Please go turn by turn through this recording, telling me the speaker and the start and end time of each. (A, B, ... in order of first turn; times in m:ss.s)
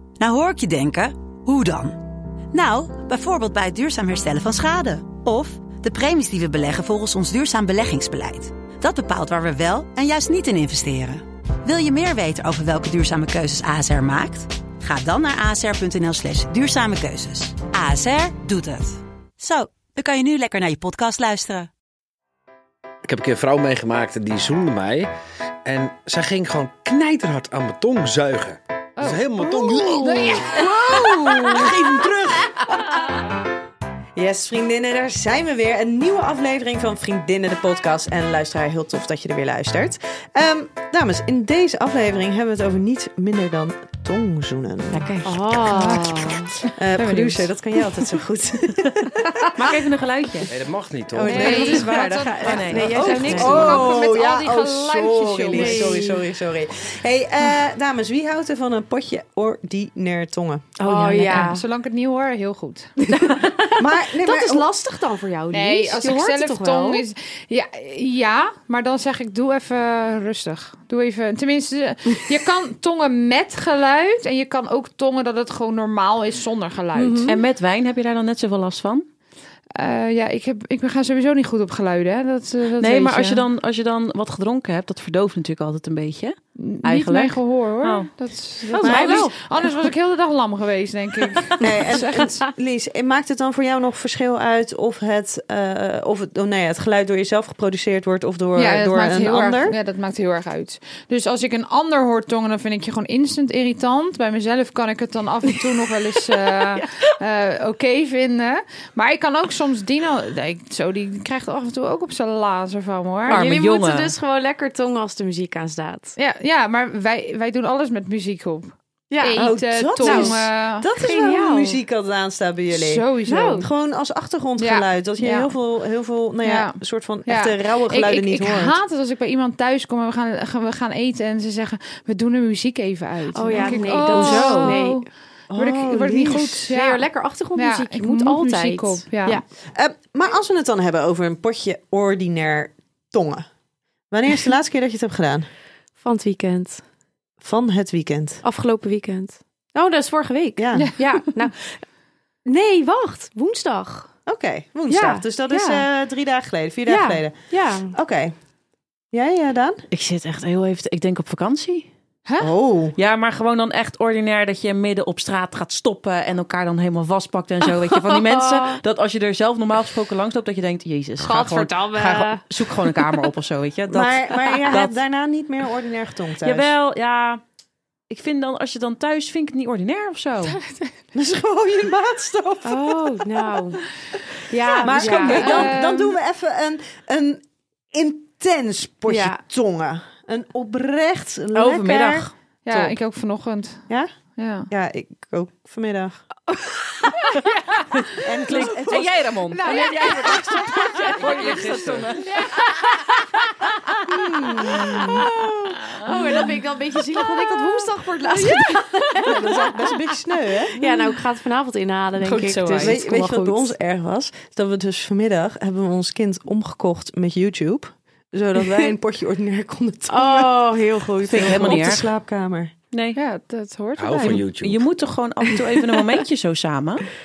0:00.2-0:21.7 A
0:23.0-0:25.1 B
0:25.6-0:30.6 B
0:29.0-0:29.2 C
0:29.8-0:30.4 D
0:29.9-0:30.6 C
0:30.4-0:31.7 E
0:31.0-0:31.5 D
0:31.4-0:32.6 B
0:34.2-0:46.0 E
0:44.9-0:47.4 D
0:45.8-0:46.1 C
0:46.7-0:49.6 E
0:49.5-0:50.5 F
0:50.5-0:51.4 B
0:51.1-0:54.0 D
0:51.2-1:00.7 E
0:51.2-0:56.0 C
0:51.3-0:53.9 F
0:55.5-0:56.2 D
1:00.8-1:01.6 D
1:00.8-1:03.1 C
1:03.0-1:07.0 D
1:03.8-1:04.7 E
1:05.5-1:17.2 C
1:16.9-1:17.4 D
1:17.2-1:19.0 F
1:19.7-1:23.4 C
1:22.8-1:28.1 F
1:26.6-1:32.5 C
1:28.7-1:29.3 F
1:28.8-1:29.3 E
1:31.6-1:39.7 E
1:38.5-1:53.5 C
1:53.3-1:54.1 F
1:53.3-1:56.2 D
1:56.2-2:00.8 C
1:59.1-1:59.4 D
1:59.3-2:08.8 E
2:00.0-2:00.4 D
2:01.0-2:01.8 D
2:02.7-2:03.6 C
2:03.3-2:03.7 D
2:04.6-2:05.5 C
2:06.4-2:17.0 C
2:13.3-2:15.0 D
2:13.5-2:14.8 F
2:13.6-2:14.7 E
2:15.5-2:16.7 E
2:16.7-2:19.4 D
2:17.5-2:19.4 C
2:19.7-2:23.5 E
2:24.1-2:25.4 E
2:26.0-2:26.8 D
2:27.4-2:28.4 E
2:28.4-2:31.7 D
2:30.6-2:30.9 E
2:30.7-2:31.2 C
2:32.4-2:34.1 D
2:34.2-2:37.4 E
2:34.9-2:35.8 D
2:36.9-2:38.0 D
2:37.9-2:38.3 E
2:39.1-2:39.8 E
2:39.9-2:41.9 F
2:42.2-2:42.5 C
2:42.4-2:43.0 E
2:43.0-2:55.0 F
2:47.8-2:48.8 D
2:51.2-2:53.2 D
2:53.9-2:56.7 E
2:56.4-2:57.4 F
2:58.1-3:00.6 F
3:01.1-3:03.2 E
3:02.6-3:03.8 D
3:04.5-3:05.8 D
3:04.7-3:12.9 E
3:04.8-3:05.4 F
3:05.3-3:06.2 C
3:09.1-3:09.4 D
3:11.5-3:12.3 F
3:12.6-3:13.8 C
3:14.4-3:14.7 C
3:14.7-3:16.2 E
3:16.6-3:17.2 D
3:18.0-3:22.2 F
3:18.2-3:19.1 E
3:19.5-3:21.7 D
3:19.7-3:20.1 C
3:19.7-3:21.1 E
3:21.2-3:22.1 B
3:22.2-3:22.6 C
3:24.1-3:25.3 E
3:24.1-3:29.6 D
3:28.3-3:29.1 C
3:29.2-3:30.8 E
3:30.7-3:33.7 D
3:32.2-3:33.0 F
3:32.8-3:40.6 E
3:40.1-3:41.8 D
3:41.2-3:42.7 E
3:41.3-3:42.1 F
3:42.9-3:43.2 F
3:43.1-3:44.4 C
3:44.0-3:44.8 B
3:44.3-3:47.0 F